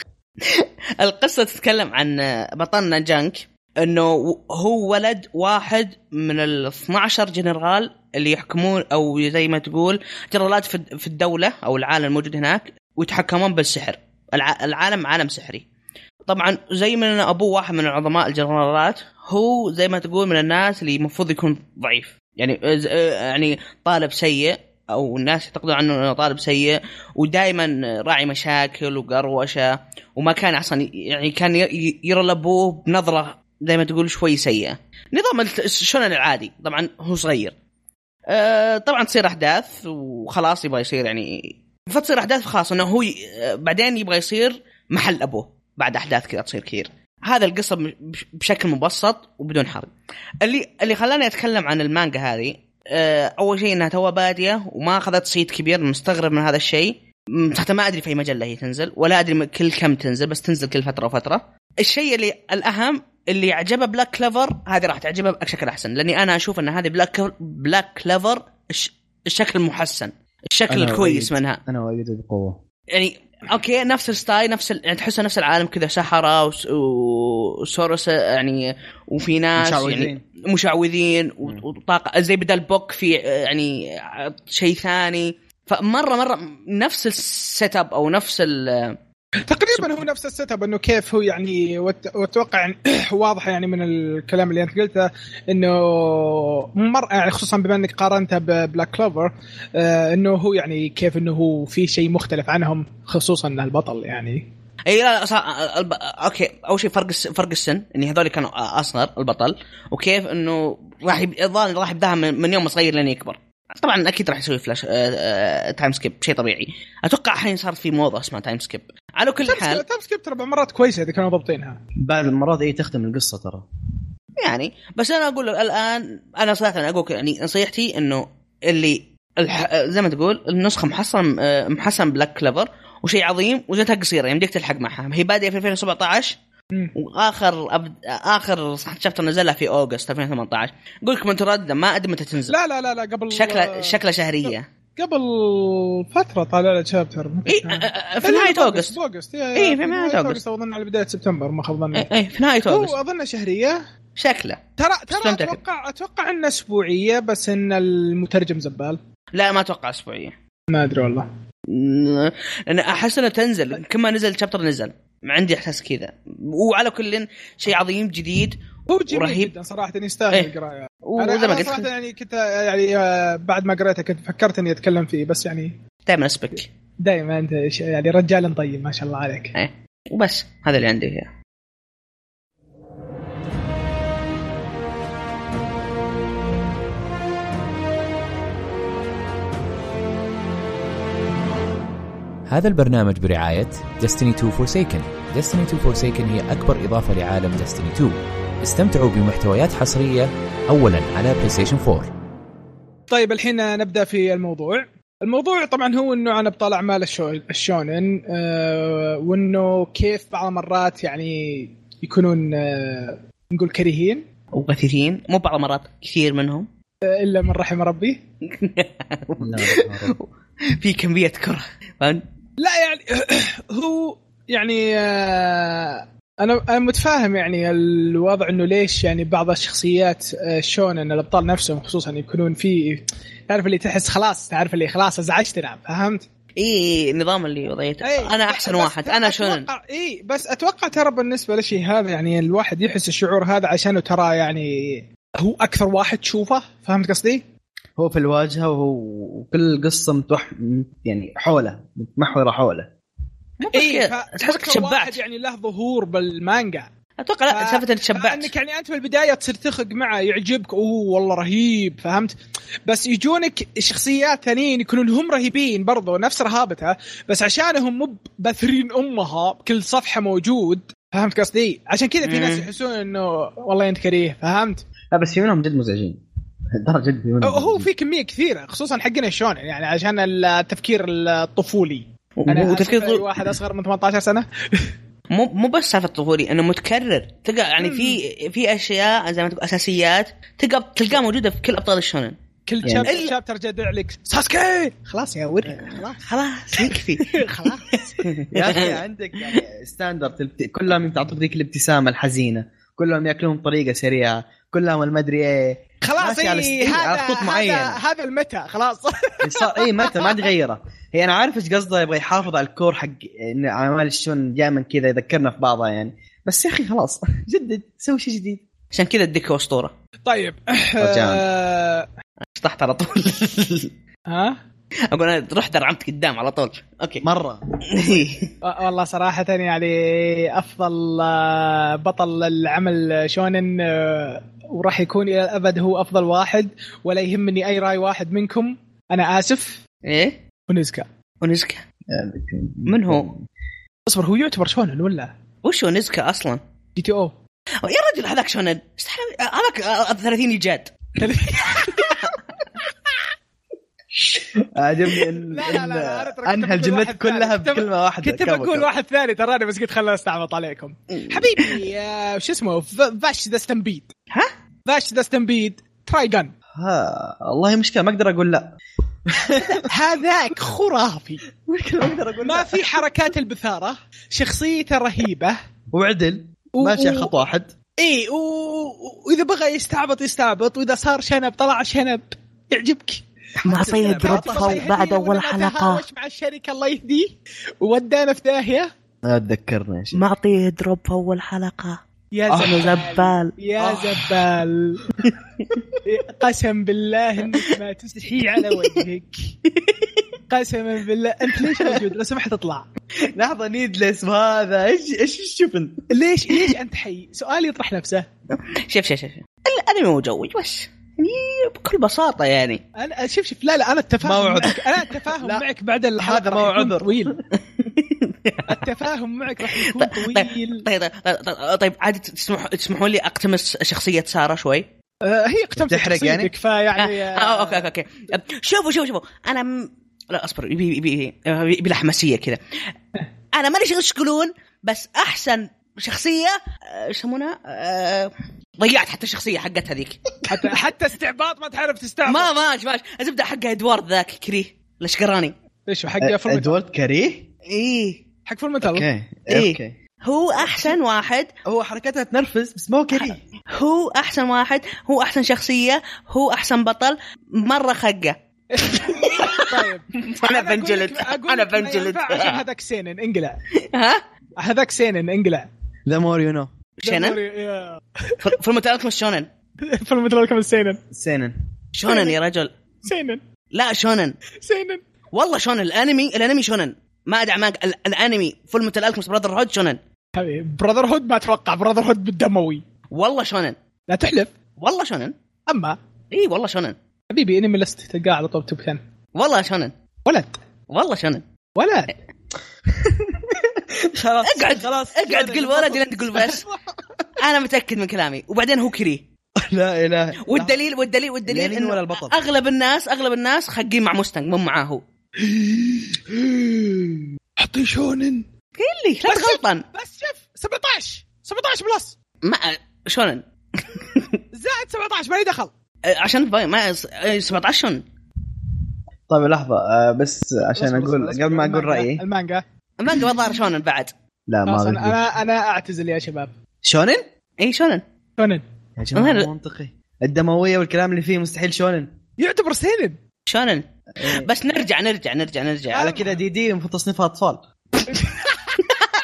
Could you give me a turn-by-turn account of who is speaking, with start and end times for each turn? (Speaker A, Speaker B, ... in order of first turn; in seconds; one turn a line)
Speaker A: 0.4-15.7
Speaker A: 16.2-37.5
Speaker A: 38.3-71.6
Speaker B: 70.7-72.6
Speaker A: 72.9-89.0
Speaker B: 79.6-80.2
Speaker C: 89.5-104.5
Speaker A: 104.8-119.8
Speaker C: 119.4-121.8
Speaker B: 122.0-123.7
Speaker A: 124.4-136.4
Speaker A: 136.9-142.6
Speaker C: 142.5-152.1
Speaker A: 143.3-144.7
Speaker A: 147.5-148.9
Speaker A: 149.6-150.4
Speaker A: 151.9-152.9
Speaker C: 152.7-153.8
Speaker A: 154.2-155.6
Speaker C: 154.8-159.0
Speaker A: 159.3-160.3
Speaker C: 160.7-161.3
Speaker A: 161.7-169.5
Speaker C: 168.9-175.8
Speaker A: 171.0-171.9
Speaker A: 176.1-176.7
Speaker C: 177.0-179.5
Speaker A: 179.5-181.3
Speaker D: 192.5-202.1
Speaker C: 203.1-214.2
Speaker A: 214.5-216.7
Speaker C: 217.1-218.2
Speaker A: 218.5-222.2
Speaker B: 219.3-220.2
Speaker C: 222.6-236.2
Speaker A: 236.6-239.7
Speaker C: 238.0-247.4
Speaker B: 248.0-252.9
Speaker A: 253.6-255.2
Speaker C: 253.7-256.9
Speaker A: 257.2-258.5
Speaker C: 257.5-262.3
Speaker C: 262.9-274.8
Speaker A: 272.2-272.7
Speaker B: 275.1-276.2
Speaker B: 276.7-277.9
Speaker C: 277.4-284.9
Speaker A: 282.4-283.2
Speaker A: 285.3-292.4
Speaker C: 287.8-288.2
Speaker C: 292.7-296.2
Speaker B: 292.8-293.1
Speaker A: 293.1-293.3
Speaker A: 296.2-297.3
Speaker C: 296.7-298.3
Speaker A: 298.2-299.0
Speaker B: 298.5-308.0
Speaker C: 306.0-310.4
Speaker B: 309.4-318.6
Speaker A: 318.9-319.9
Speaker C: 320.2-322.1
Speaker B: 321.0-321.4
Speaker A: 322.5-323.9
Speaker C: 324.3-324.6
Speaker A: 325.1-327.2
Speaker B: 327.2-327.6
Speaker A: 327.9-328.5
Speaker C: 328.6-339.8
Speaker A: 340.0-340.4
Speaker C: 340.7-341.1
Speaker A: 341.4-341.8
Speaker B: 342.1-343.5
Speaker A: 342.9-343.3
Speaker C: 344.1-345.3
Speaker A: 345.6-346.6
Speaker C: 346.9-347.3
Speaker A: 347.8-350.9
Speaker C: 351.2-352.4
Speaker B: 354.1-358.9
Speaker C: 355.4-364.1
Speaker A: 361.2-361.7
Speaker C: 364.9-366.5
Speaker B: 366.7-369.8
Speaker C: 369.8-371.4
Speaker B: 371.6-373.0
Speaker C: 372.4-375.6
Speaker B: 375.9-377.7
Speaker C: 376.8-377.3
Speaker C: 378.0-383.2
Speaker B: 383.6-384.9
Speaker A: 383.6-386.0
Speaker C: 383.9-388.9
Speaker B: 389.2-390.2
Speaker A: 390.1-392.0
Speaker C: 392.3-395.1
Speaker B: 392.5-392.8
Speaker A: 392.6-393.5
Speaker B: 393.8-394.2
Speaker C: 396.0-399.6
Speaker A: 399.7-400.2
Speaker C: 400.5-402.9
Speaker B: 403.3-406.1
Speaker C: 406.1-408.3
Speaker A: 408.5-412.8
Speaker C: 413.0-417.4
Speaker B: 414.2-414.8
Speaker B: 416.2-417.4
Speaker A: 417.8-418.8
Speaker C: 418.6-420.9
Speaker A: 419.7-424.9
Speaker C: 425.2-427.8
Speaker B: 425.8-426.5
Speaker A: 427.0-432.6
Speaker A: 433.5-440.3
Speaker C: 440.5-442.5
Speaker A: 442.2-445.5
Speaker C: 445.9-446.7
Speaker B: 446.2-447.5
Speaker A: 447.6-448.2
Speaker C: 448.4-449.1
Speaker B: 448.8-450.0
Speaker A: 449.5-451.5
Speaker B: 451.6-453.4
Speaker A: 453.7-458.4
Speaker C: 458.7-463.6
Speaker A: 459.0-462.6
Speaker A: 463.8-464.2
Speaker C: 464.6-465.7
Speaker B: 466.1-466.7
Speaker A: 467.0-467.4
Speaker C: 467.0-468.4
Speaker A: 468.4-469.5
Speaker C: 469.9-471.0
Speaker B: 471.1-471.6
Speaker A: 471.9-472.7
Speaker C: 472.1-472.3
Speaker C: 473.0-473.4
Speaker A: 473.7-474.4
Speaker C: 474.6-475.0
Speaker A: 475.3-480.0
Speaker C: 480.4-482.8
Speaker A: 483.1-483.7
Speaker C: 484.1-484.5
Speaker A: 484.8-485.3
Speaker C: 485.7-486.0
Speaker A: 486.3-486.9
Speaker C: 487.3-489.0
Speaker A: 489.3-489.9
Speaker C: 490.2-490.6
Speaker A: 490.9-491.4
Speaker C: 491.8-492.1
Speaker B: 492.9-496.1
Speaker A: 494.4-496.6
Speaker C: 496.2-496.8
Speaker A: 497.4-499.2
Speaker B: 499.6-500.8
Speaker A: 500.4-505.0
Speaker B: 501.4-502.4
Speaker C: 505.4-508.4
Speaker A: 508.8-509.8
Speaker C: 509.2-512.2
Speaker A: 512.4-514.4
Speaker C: 514.5-515.7
Speaker A: 516.0-518.0
Speaker B: 519.3-522.2
Speaker C: 520.7-522.6
Speaker A: 523.0-524.1
Speaker B: 524.5-525.2
Speaker C: 524.6-526.5
Speaker B: 526.8-527.2
Speaker A: 527.6-528.0
Speaker C: 528.4-528.6
Speaker B: 529.0-532.1
Speaker A: 529.1-529.5
Speaker C: 532.4-533.2
Speaker A: 533.5-536.1
Speaker B: 534.2-534.5
Speaker C: 535.9-536.3
Speaker B: 535.9-537.6
Speaker C: 538.1-538.8